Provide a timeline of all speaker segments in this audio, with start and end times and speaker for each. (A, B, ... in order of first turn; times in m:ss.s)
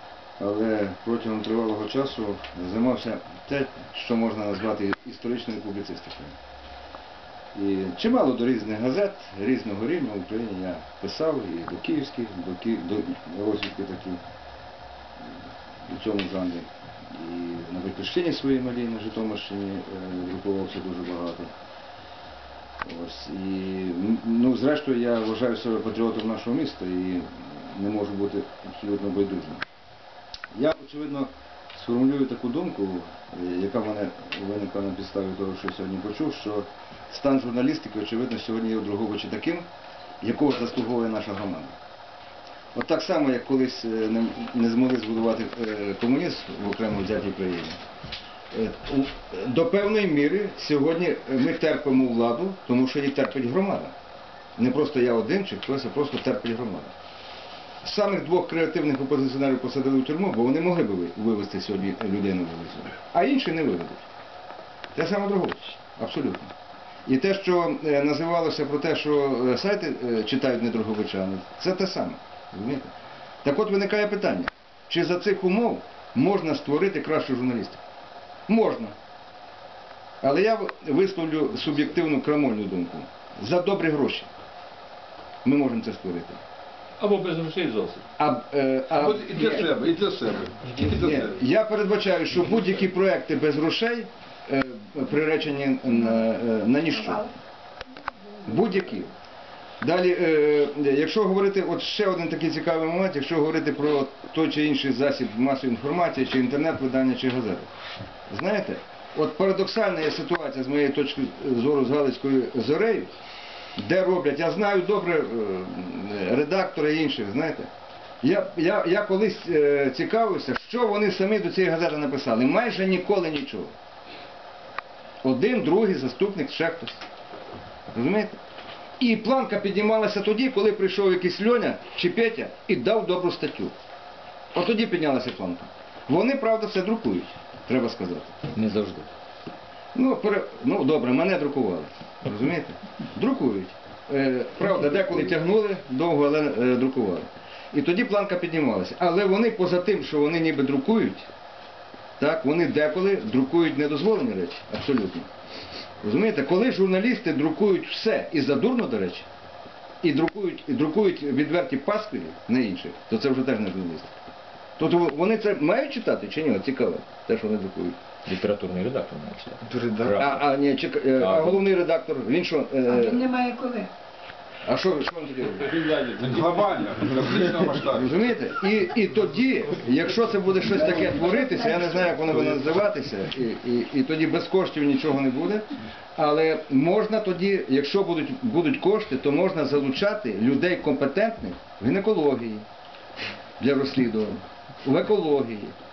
0:00.4-0:06.4 A
0:07.5-0:14.2 A
0:15.8-0:21.5 A
0:22.8-0:29.6 A
0:30.5-0:39.7 A
0:40.2-0:41.8 A
0:42.7-0:47.8 A
0:48.5-0:53.9 A
0:54.6-0:56.9 A
0:57.8-1:04.0 A
1:04.9-1:06.5 A
1:07.0-1:12.9 A
1:13.4-1:17.8 A
1:18.5-1:18.9 A
1:20.2-1:24.3 A
1:25.4-1:26.4 A
1:27.0-1:28.0 B
1:28.2-1:29.7 A
1:28.9-1:31.4 C
1:30.8-1:37.3 A
1:38.4-1:39.1 A
1:39.8-1:47.7 A
1:48.3-1:53.1 A
1:53.8-1:57.7 A
1:58.2-2:03.7 A
2:05.2-2:07.0 A
2:07.9-2:08.4 A
2:09.0-2:13.7 A
2:14.5-2:18.5 A
2:18.5-2:19.1 B
2:19.9-2:31.3 A
2:32.2-2:35.3 A
2:36.0-2:39.3 A
2:40.0-2:44.1 A
2:44.8-2:48.0 A
2:48.2-2:50.4 B
2:50.0-2:53.3 A
2:51.2-2:51.6 B
2:52.8-2:53.9 D
2:54.6-2:55.7 A
2:55.8-2:58.4 C
2:57.8-3:05.6 A
3:01.0-3:02.1 D
3:06.2-3:12.6 A
3:13.6-3:15.7 A